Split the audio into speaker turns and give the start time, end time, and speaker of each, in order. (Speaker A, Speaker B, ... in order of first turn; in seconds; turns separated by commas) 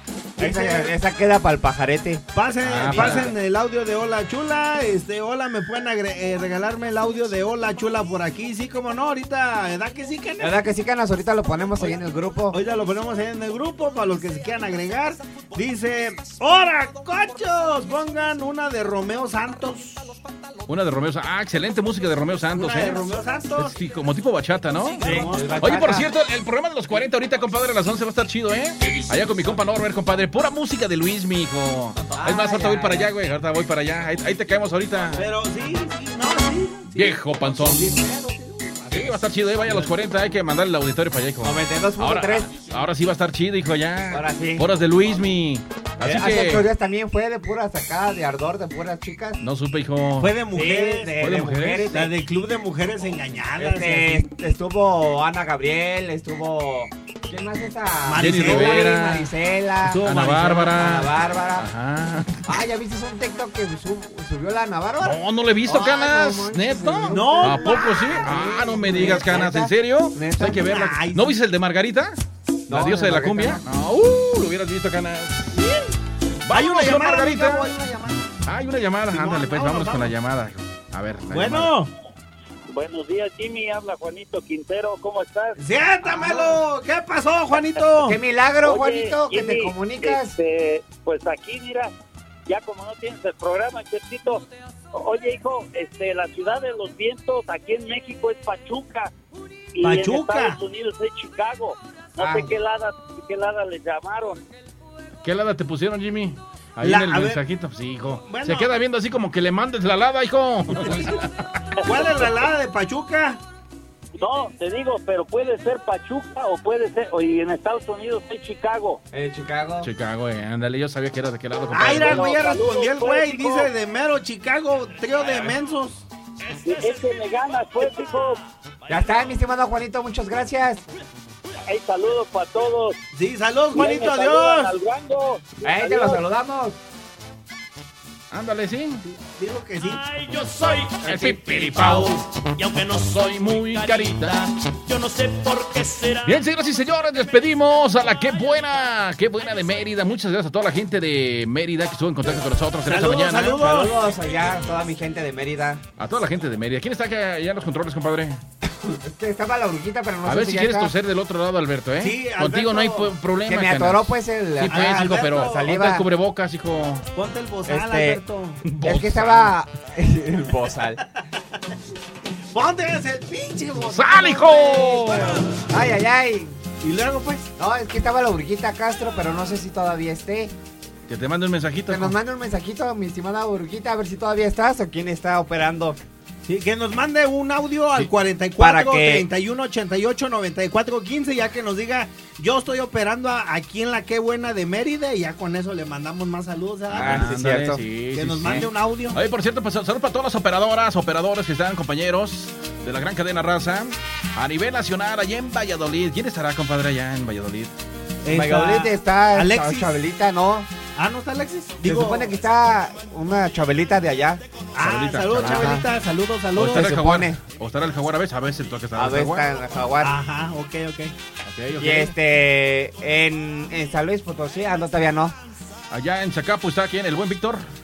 Speaker A: 0.4-0.9, Speaker B: 0.4-2.2, Speaker A: 2.3-10.6, Speaker C: 2.6-3.3, Speaker B: 2.8-3.4, Speaker B: 10.4-12.6, Speaker A: 12.5-20.2, Speaker C: 20.7-23.0, Speaker A: 22.5-23.7, Speaker C: 23.6-35.2, Speaker A: 25.0-25.6, Speaker B: 25.0-26.1, Speaker B: 32.1-33.1, Speaker A: 35.1-39.2, Speaker C: 36.8-38.0, Speaker C: 38.9-46.6, Speaker B: 41.4-42.7, Speaker B: 44.1-44.7, Speaker B: 46.0-49.4, Speaker C: 49.4-50.3, Speaker A: 50.2-51.1, Speaker B: 50.5-52.1, Speaker C: 51.2-52.0, Speaker A: 51.9-54.3, Speaker B: 53.6-61.6, Speaker A: 58.0-58.9, Speaker C: 58.1-59.3, Speaker A: 59.9-60.7, Speaker C: 60.0-62.5, Speaker B: 62.5-70.7, Speaker C: 65.0-75.6, Speaker A: 67.1-69.5, Speaker A: 70.4-71.3, Speaker B: 72.7-73.6, Speaker A: 75.5-75.9, Speaker C: 76.4-77.8, Speaker A: 76.5-78.3, Speaker C: 78.4-81.7, Speaker A: 79.1-80.1, Speaker A: 81.3-81.9, Speaker D: 82.7-85.6, Speaker A: 85.6-88.2, Speaker B: 86.0-86.6, Speaker D: 87.5-87.8, Speaker B: 88.0-90.3, Speaker D: 88.6-91.9, Speaker D: 92.5-99.1, Speaker D: 99.7-104.5, Speaker A: 99.8-100.6, Speaker B: 102.2-102.5, Speaker C: 105.2-111.3, Speaker A: 106.8-107.4, Speaker A: 108.3-108.7, Speaker A: 111.8-113.4, Speaker D: 114.2-119.0, Speaker B: 119.1-119.9, Speaker C: 119.8-122.3, Speaker A: 121.7-126.0, Speaker D: 121.9-123.7, Speaker D: 126.6-128.4, Speaker B: 128.9-130.8, Speaker D: 131.6-133.0, Speaker A: 133.1-134.7, Speaker D: 133.7-136.2, Speaker B: 135.6-136.8, Speaker C: 138.3-139.0, Speaker A: 139.1-140.0, Speaker E: 140.1-141.0, Speaker C: 141.0-142.2, Speaker B: 141.0-141.7, Speaker A: 141.7-142.1, Speaker E: 142.4-146.4, Speaker C: 142.9-144.3, Speaker C: 146.2-153.6, Speaker A: 152.8-153.9, Speaker B: 153.4-155.8, Speaker C: 156.0-158.4, Speaker B: 158.7-160.9, Speaker C: 160.2-167.1, Speaker A: 162.0-163.1, Speaker B: 163.4-166.1, Speaker A: 164.7-165.7, Speaker A: 167.1-168.6, Speaker B: 167.7-168.2, Speaker C: 168.6-169.6, Speaker B: 168.8-171.0, Speaker A: 172.5-175.4, Speaker C: 173.8-175.4, Speaker B: 175.7-176.6, Speaker A: 176.8-177.5, Speaker B: 177.6-180.5, Speaker C: 181.1-182.2, Speaker B: 181.9-186.0, Speaker A: 186.4-197.3, Speaker B: 188.6-189.3, Speaker C: 196.9-207.7, Speaker B: 196.9-197.8, Speaker A: 198.1-199.2, Speaker A: 208.2-209.9, Speaker B: 208.3-210.7, Speaker A: 210.9-212.3, Speaker B: 211.8-214.4, Speaker A: 214.7-216.9, Speaker C: 214.8-215.8, Speaker B: 215.4-215.9, Speaker C: 216.6-219.5, Speaker B: 216.7-217.4, Speaker B: 218.9-220.2, Speaker A: 220.0-221.1, Speaker C: 221.4-222.1, Speaker B: 221.8-225.3, Speaker C: 225.9-227.7